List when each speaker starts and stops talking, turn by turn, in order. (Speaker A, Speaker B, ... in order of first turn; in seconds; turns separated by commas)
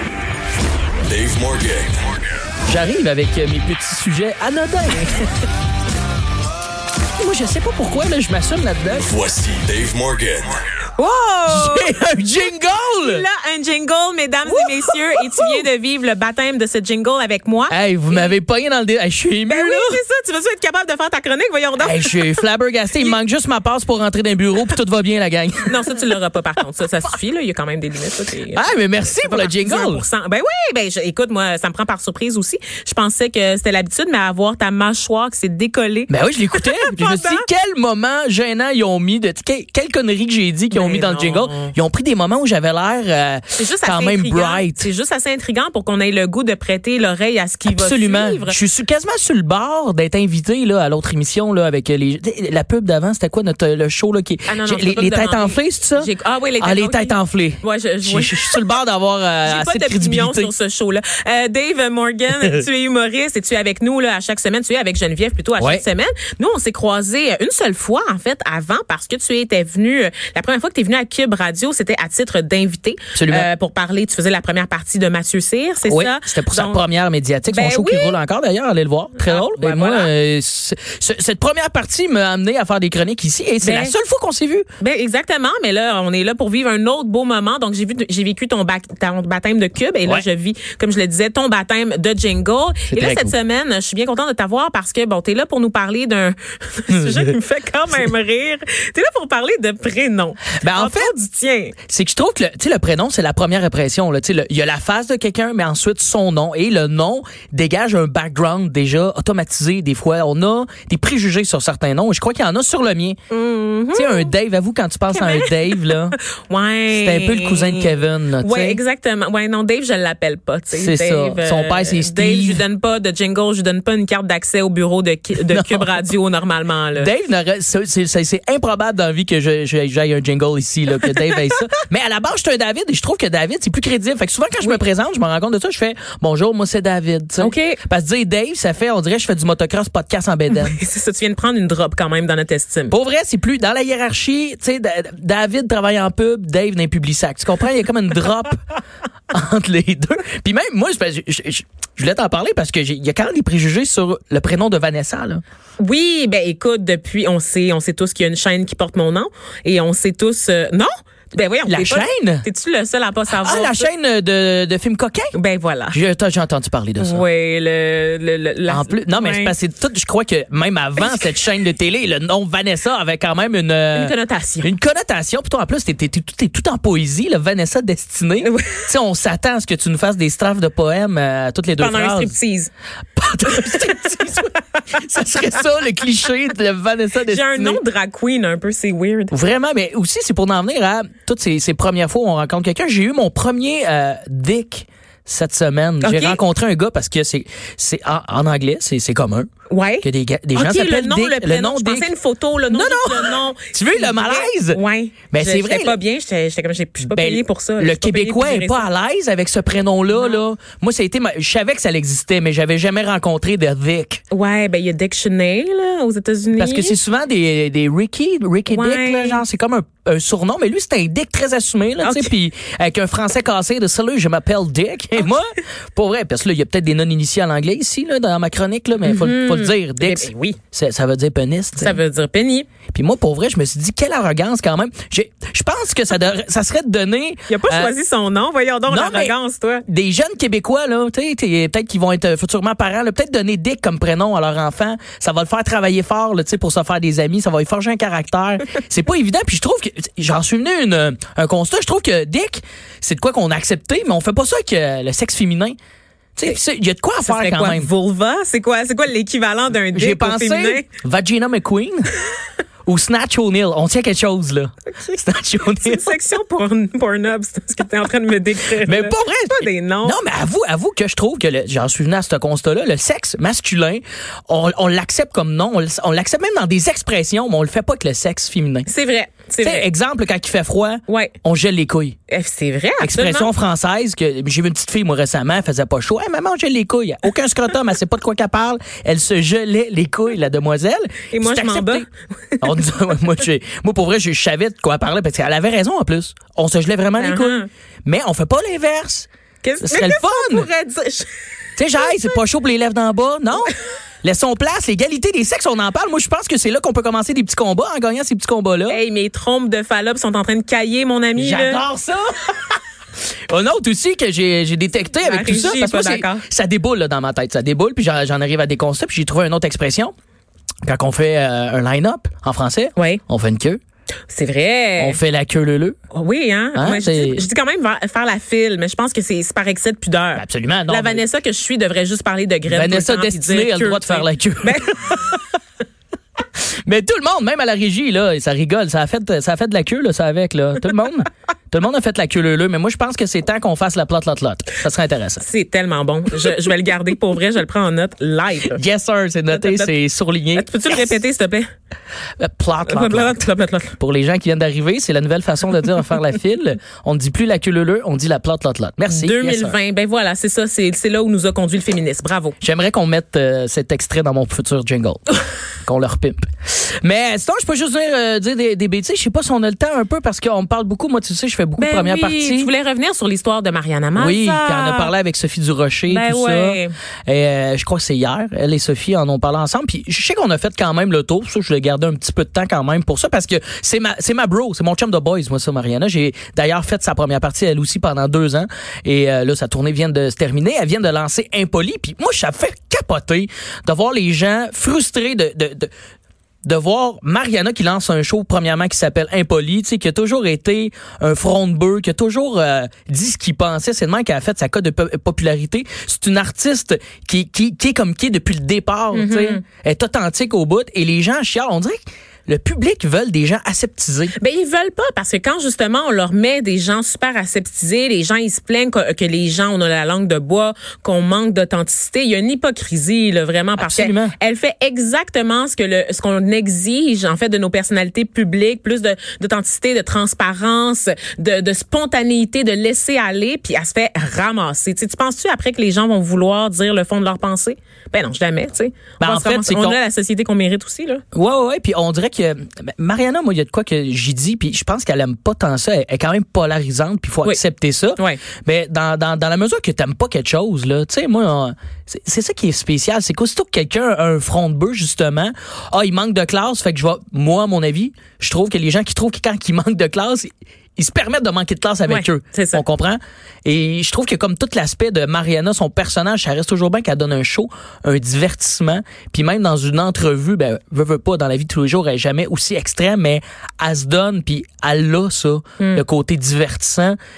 Speaker A: 1.0-2.0, Speaker B: 2.7-5.2, Speaker B: 7.2-9.1, Speaker A: 9.0-10.6, Speaker C: 11.0-12.2, Speaker B: 11.5-13.2, Speaker C: 12.9-18.4, Speaker B: 14.5-15.7, Speaker B: 17.7-20.0, Speaker C: 19.5-22.3, Speaker B: 21.8-26.0, Speaker C: 25.7-37.5, Speaker B: 28.5-30.1, Speaker B: 36.1-44.9, Speaker C: 40.7-41.7, Speaker C: 43.5-48.6, Speaker B: 47.7-60.5, Speaker C: 54.5-58.6, Speaker C: 59.4-76.8, Speaker B: 65.6-65.8, Speaker B: 73.2-73.5, Speaker B: 75.9-84.7, Speaker C: 77.5-78.2, Speaker C: 79.2-80.1, Speaker C: 83.6-84.0, Speaker C: 84.8-101.8, Speaker B: 92.9-93.3, Speaker B: 96.9-97.3, Speaker B: 100.6-101.1, Speaker B: 101.9-113.2, Speaker C: 113.3-114.3, Speaker B: 113.9-116.2, Speaker C: 115.1-127.1, Speaker B: 116.9-118.8, Speaker B: 120.7-122.7, Speaker B: 125.5-126.0, Speaker B: 126.9-140.8, Speaker C: 137.4-137.8, Speaker C: 140.5-143.0, Speaker B: 142.9-148.6, Speaker B: 149.3-155.4, Speaker C: 155.8-163.9, Speaker B: 161.7-162.5, Speaker B: 163.4-165.3, Speaker C: 165.3-166.0, Speaker B: 165.9-167.2, Speaker C: 167.0-169.6, Speaker B: 168.7-182.3, Speaker C: 173.9-174.7, Speaker C: 178.4-178.9, Speaker C: 181.8-182.7, Speaker B: 183.2-187.8, Speaker C: 187.3-189.4, Speaker B: 189.3-199.5, Speaker C: 196.0-196.4, Speaker C: 199.7-208.8, Speaker B: 200.0-206.0, Speaker B: 207.0-214.2, Speaker C: 210.1-210.4, Speaker C: 214.3-217.0, Speaker B: 216.6-232.0, Speaker C: 218.7-219.4, Speaker C: 222.0-222.3, Speaker C: 229.0-230.6, Speaker C: 231.8-232.7, Speaker B: 232.9-237.9, Speaker C: 237.5-239.8, Speaker B: 238.9-239.4, Speaker B: 239.9-255.8, Speaker B: 256.4-257.9, Speaker C: 257.2-260.9, Speaker B: 259.9-262.1, Speaker B: 262.9-266.2, Speaker C: 265.8-270.2, Speaker B: 268.8-278.9, Speaker C: 278.9-279.9, Speaker B: 279.6-282.2, Speaker C: 281.1-281.4, Speaker C: 282.3-283.5, Speaker B: 283.0-292.1, Speaker C: 291.3-292.7, Speaker B: 292.6-299.3, Speaker C: 297.2-297.7, Speaker C: 299.6-301.3, Speaker B: 299.8-300.7, Speaker B: 301.8-309.0, Speaker C: 302.0-302.2, Speaker C: 308.9-311.8, Speaker B: 311.4-312.6, Speaker B: 313.5-320.1, Speaker C: 315.2-316.4, Speaker B: 320.9-323.8, Speaker C: 323.0-323.2, Speaker C: 324.3-325.2, Speaker B: 325.0-325.9, Speaker C: 326.1-335.2, Speaker B: 326.8-327.4, Speaker B: 330.4-331.2, Speaker B: 332.7-335.4, Speaker B: 336.9-345.4, Speaker C: 345.4-348.8, Speaker B: 348.6-351.1, Speaker C: 349.5-349.9, Speaker C: 350.6-351.7, Speaker B: 352.4-353.4, Speaker C: 352.9-354.0, Speaker B: 354.0-359.8, Speaker C: 359.1-362.6, Speaker B: 362.6-365.2, Speaker B: 365.8-372.7, Speaker C: 371.8-375.1, Speaker B: 374.1-395.9, Speaker C: 376.1-376.9, Speaker B: 396.6-414.3, Speaker C: 409.1-409.6, Speaker C: 414.4-441.2, Speaker B: 423.8-424.3, Speaker B: 439.2-440.0, Speaker B: 441.3-477.2, Speaker C: 462.1-462.8, Speaker C: 475.8-476.0